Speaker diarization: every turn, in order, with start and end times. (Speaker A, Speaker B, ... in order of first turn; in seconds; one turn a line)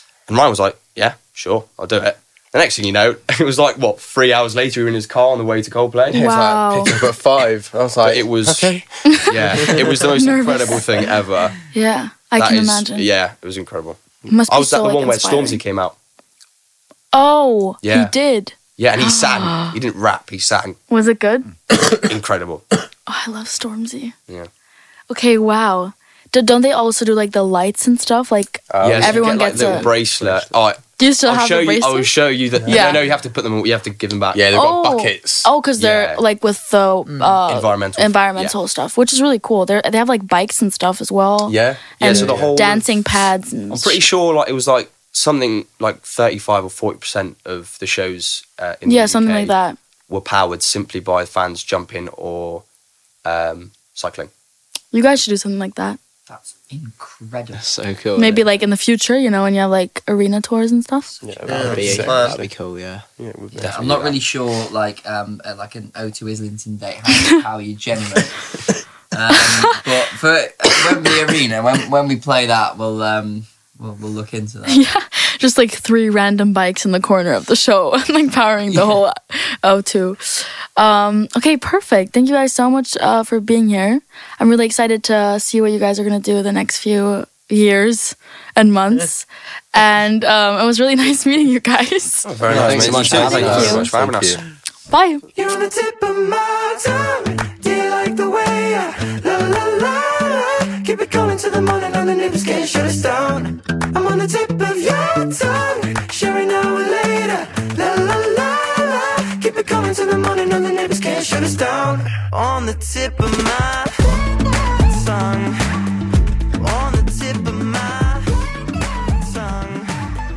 Speaker A: 0.3-6.2
Speaker B: 6.1-10.0
Speaker C: 6.1-7.1
Speaker A: 8.0-11.5
Speaker C: 9.1-9.6
Speaker C: 10.1-11.1
Speaker C: 11.7-13.1
Speaker A: 12.4-15.9
Speaker C: 14.3-15.6
Speaker C: 17.1-19.8
Speaker A: 17.8-18.1
Speaker A: 18.8-20.8
Speaker C: 20.9-21.5
Speaker A: 22.0-22.6
Speaker C: 23.1-24.1
Speaker C: 25.1-29.9
Speaker B: 28.7-30.5
Speaker A: 28.8-34.4
Speaker C: 31.0-32.1
Speaker B: 32.6-33.0
Speaker C: 32.6-33.0
Speaker B: 34.3-35.5
Speaker C: 34.5-44.0
Speaker A: 35.8-36.2
Speaker D: 37.1-37.4
Speaker A: 37.4-38.5
Speaker B: 41.5-42.6
Speaker A: 42.0-42.9
Speaker A: 43.7-49.5
Speaker C: 48.9-49.8
Speaker A: 50.1-52.6
Speaker A: 53.2-54.3
Speaker C: 54.9-56.0
Speaker E: 56.3-57.7
Speaker F: 57.5-58.4
Speaker C: 58.2-61.2
Speaker B: 61.2-62.5
Speaker D: 61.5-62.4
Speaker F: 61.5-63.0
Speaker B: 63.2-64.1
Speaker A: 63.6-64.1
Speaker E: 63.6-68.5
Speaker E: 69.1-74.8
Speaker C: 69.3-69.8
Speaker C: 74.7-92.3
Speaker A: 92.2-94.4
Speaker B: 92.4-94.4
Speaker F: 92.5-93.9
Speaker C: 93.4-93.8
Speaker C: 94.9-95.2
Speaker D: 95.3-113.9
Speaker D: 114.8-115.6
Speaker D: 116.6-118.3
Speaker D: 119.2-119.9